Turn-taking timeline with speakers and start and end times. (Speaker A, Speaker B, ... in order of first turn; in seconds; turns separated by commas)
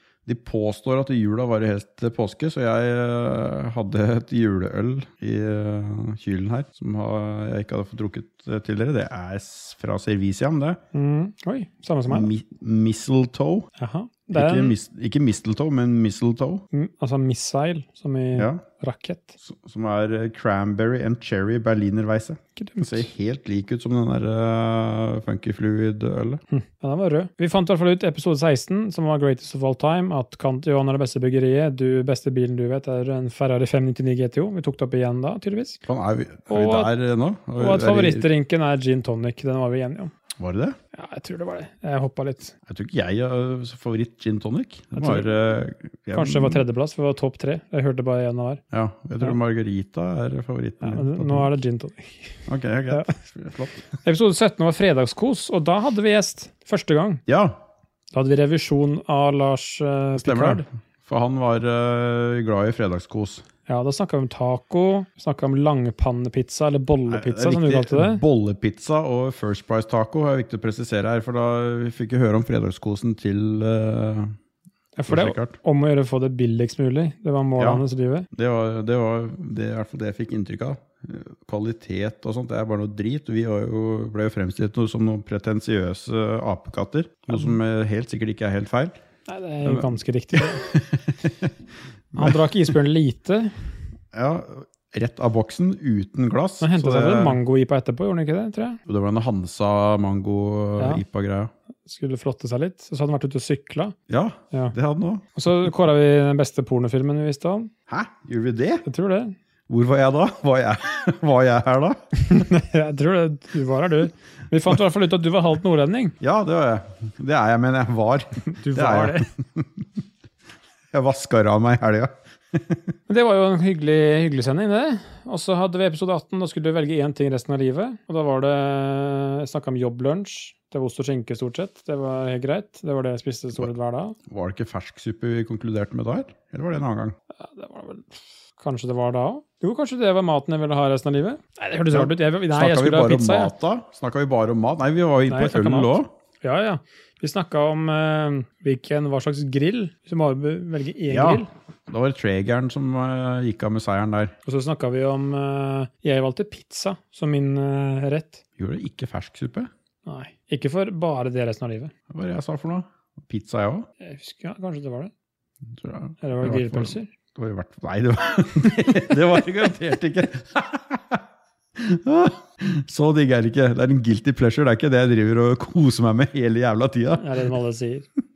Speaker A: 0.2-10.8, Speaker B: 10.9-12.3, Speaker A: 12.1-13.7, Speaker B: 13.8-14.7, Speaker A: 14.3-16.6, Speaker B: 16.7-19.4, Speaker A: 18.4-18.6, Speaker A: 19.4-26.4, Speaker B: 22.6-23.1, Speaker B: 26.5-35.8, Speaker A: 35.9-38.3, Speaker B: 36.5-36.9, Speaker B: 37.6-40.1, Speaker A: 40.4-40.8, Speaker B: 40.9-42.5, Speaker A: 42.6-46.6, Speaker B: 45.0-45.3, Speaker B: 46.1-48.6, Speaker A: 48.7-51.5, Speaker B: 50.8-52.4, Speaker A: 52.5-53.9, Speaker B: 54.0-57.2, Speaker A: 57.3-57.6, Speaker B: 58.1-60.6, Speaker A: 60.1-63.4, Speaker B: 63.7-68.2, Speaker A: 67.1-74.3, Speaker B: 75.0-78.3, Speaker A: 75.1-75.6, Speaker A: 77.6-89.0, Speaker B: 89.3-90.7, Speaker A: 89.6-91.5, Speaker A: 92.1-92.5, Speaker B: 92.2-93.5, Speaker A: 94.1-97.4, Speaker B: 96.6-98.8, Speaker A: 98.9-101.5, Speaker B: 101.8-103.9, Speaker A: 104.1-105.3, Speaker B: 105.3-107.7, Speaker A: 107.9-108.8, Speaker B: 108.8-109.3, Speaker A: 109.7-112.4, Speaker B: 112.2-116.1, Speaker A: 116.2-119.8, Speaker B: 118.5-119.3, Speaker A: 120.9-122.9, Speaker B: 123.1-134.2, Speaker A: 134.3-137.2, Speaker B: 137.4-143.5, Speaker A: 141.9-146.1, Speaker B: 145.3-151.5, Speaker A: 151.1-154.3, Speaker B: 154.4-158.4, Speaker A: 158.6-159.7, Speaker B: 160.1-161.9, Speaker A: 162.1-163.9, Speaker B: 164.0-165.1, Speaker A: 165.7-171.2, Speaker B: 166.2-167.1, Speaker A: 171.8-177.3, Speaker B: 177.2-178.1